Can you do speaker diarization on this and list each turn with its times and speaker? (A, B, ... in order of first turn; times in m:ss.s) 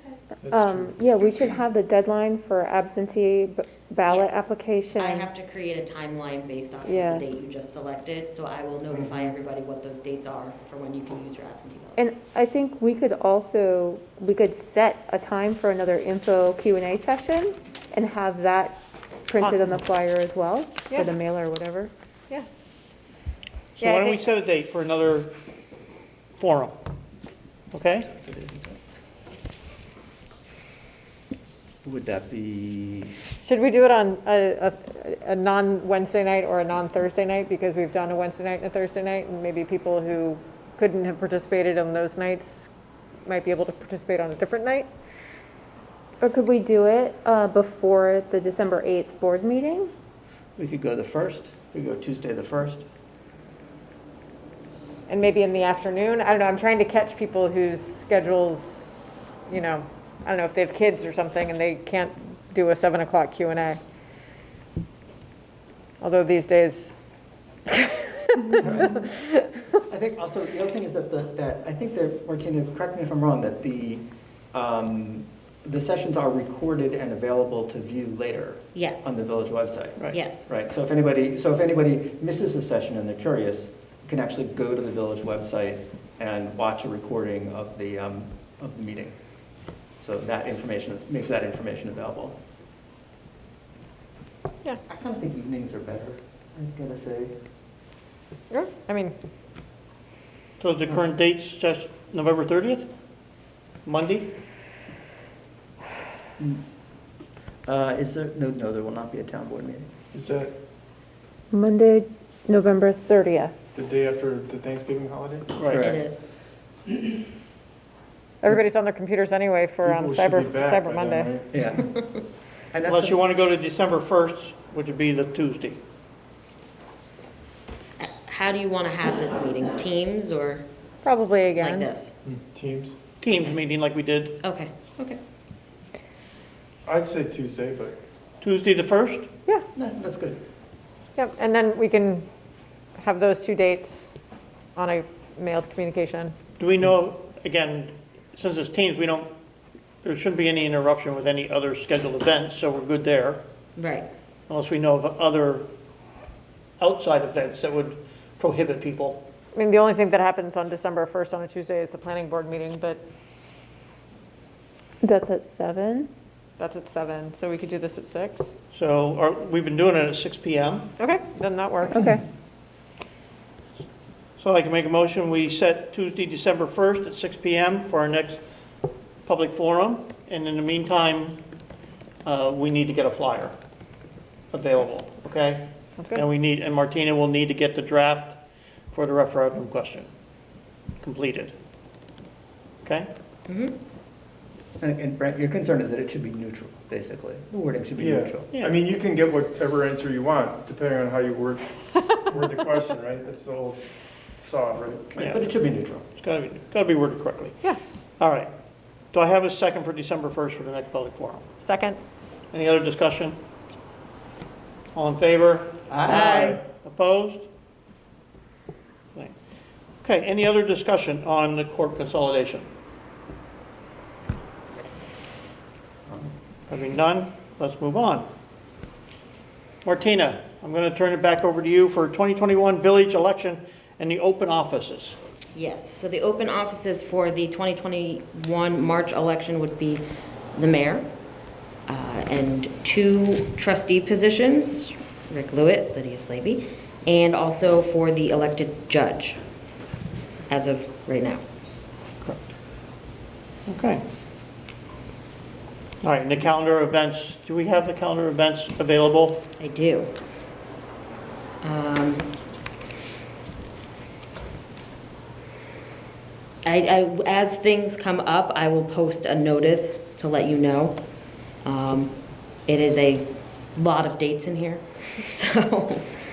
0:00.4-0:00.9 A
0:00.5-0:05.3 B
0:04.0-0:12.0 C
0:06.8-0:07.2 B
0:12.0-0:21.9 B
0:20.9-0:21.1 D
0:23.8-0:25.3 E
0:23.8-0:24.2 D
0:26.4-0:26.8 E
0:27.7-0:28.1 E
0:28.1-0:28.8 F
0:31.8-0:33.2 F
0:33.4-0:42.7 D
0:43.2-0:44.9 D
0:46.2-0:49.9 B
0:50.6-0:52.8 F
0:55.1-0:58.9 D
0:59.5-1:03.8 D
1:06.0-1:07.0 D
1:07.7-1:09.4 D
1:09.9-1:29.2 F
1:18.7-1:19.1 C
1:20.1-1:20.5 C
1:30.0-1:32.4 F
1:34.9-1:37.4 F
1:38.5-1:39.1 D
1:40.6-1:42.9 E
1:43.8-1:44.3 E
1:46.4-1:46.6 F
1:47.6-1:49.9 F
1:50.1-1:50.5 A
1:51.5-1:53.5 B
1:53.7-1:55.5 A
1:55.6-1:55.9 E
1:55.6-1:56.0 F
1:55.7-1:56.2 C
1:58.4-2:01.3 D
1:59.8-2:01.5 A
2:01.5-2:01.9 F
2:02.7-2:03.2 F
2:02.9-2:05.8 E
2:08.0-2:10.6 C
2:11.0-2:11.9 D
2:11.6-2:12.1 C
2:12.2-2:12.9 A
2:13.2-2:14.4 E
2:14.4-2:15.2 C
2:16.8-2:18.0 A
2:18.4-2:19.3 E
2:19.7-2:20.4 F
2:21.2-2:22.2 D
2:23.0-2:24.1 D
2:24.8-2:26.3 D
2:26.6-2:29.3 E
2:30.0-2:33.4 E
2:33.8-2:34.1 C
2:34.5-2:35.7 E
2:36.8-2:39.2 E
2:39.5-2:43.0 D
2:45.0-2:46.1 B
2:46.6-2:48.5 D
2:48.7-2:50.9 E
2:51.0-2:52.1 D
2:51.9-2:52.2 B
2:54.4-2:58.4 E
2:59.2-3:01.4 E
3:02.2-3:03.5 E
3:04.5-3:08.4 E
3:06.0-3:06.2 D
3:08.9-3:10.1 E
3:11.0-3:11.5 E
3:12.8-3:13.1 E
3:13.5-3:13.7 C
3:14.8-3:18.5 F
3:18.0-3:21.6 A
3:18.5-3:18.8 E
3:22.3-3:23.8 A
3:24.4-3:25.1 A
3:25.1-3:26.0 F
3:25.2-3:25.5 E
3:26.2-3:27.6 E
3:28.2-3:28.5 E
3:29.1-3:31.4 E
3:31.6-3:32.0 D
3:32.5-3:33.4 E
3:34.9-3:37.5 E
3:35.9-3:36.6 F
3:36.1-3:36.5 D
3:40.0-3:42.7 E
3:46.1-3:46.3 F
3:46.7-3:48.3 E
3:49.8-3:55.2 E
3:55.5-4:01.1 C
4:01.9-4:09.4 C
4:10.5-4:11.4 C
4:13.7-4:14.0 E
4:16.0-4:19.4 E
4:19.6-4:20.1 C
4:21.6-4:22.3 C
4:26.6-4:31.0 C
4:31.6-4:36.1 C